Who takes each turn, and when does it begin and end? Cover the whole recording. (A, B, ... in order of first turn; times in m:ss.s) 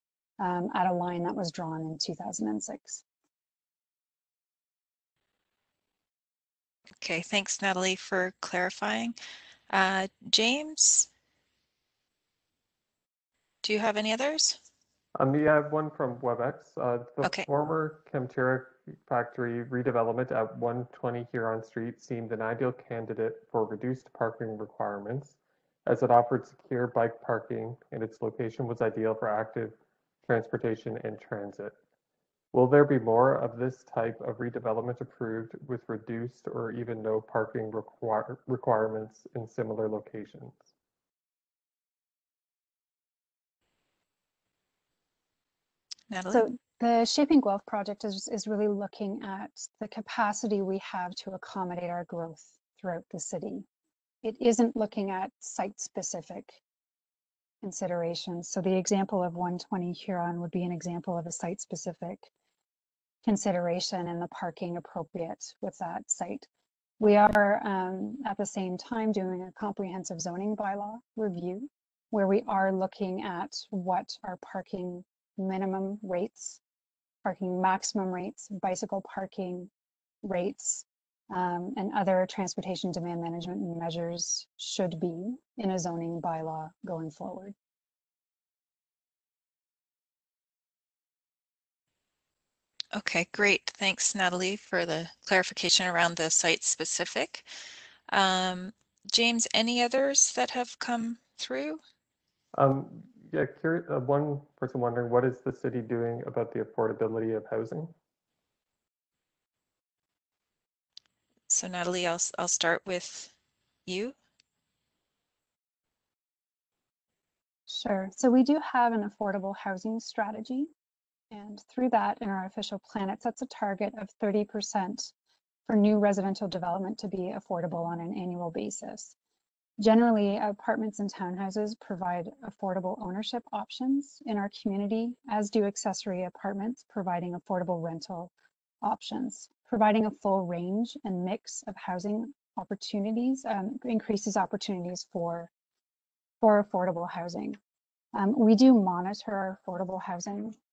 0:00.4-0:03.0 A
0:07.0-0:09.2 B
0:09.7-0:11.1 B
0:13.6-0:14.6 B
0:15.2-0:31.8 C
0:32.5-0:40.6 C
0:46.1-0:46.4 B
0:46.3-0:53.6 A
0:54.2-0:56.6 A
0:57.6-1:02.3 A
1:03.2-1:06.5 A
1:07.0-1:16.6 A
1:17.2-1:19.7 A
1:20.2-1:27.5 A
1:32.9-1:37.4 B
1:38.1-1:41.8 B
1:42.6-1:47.9 C
1:51.5-1:53.3 B
1:53.8-1:54.1 B
1:57.7-2:00.7 A
2:01.3-2:05.1 A
2:05.6-2:09.1 A
2:09.8-2:18.3 A
2:18.8-2:25.5 A
2:26.4-2:27.6 A
2:28.1-2:30.6 A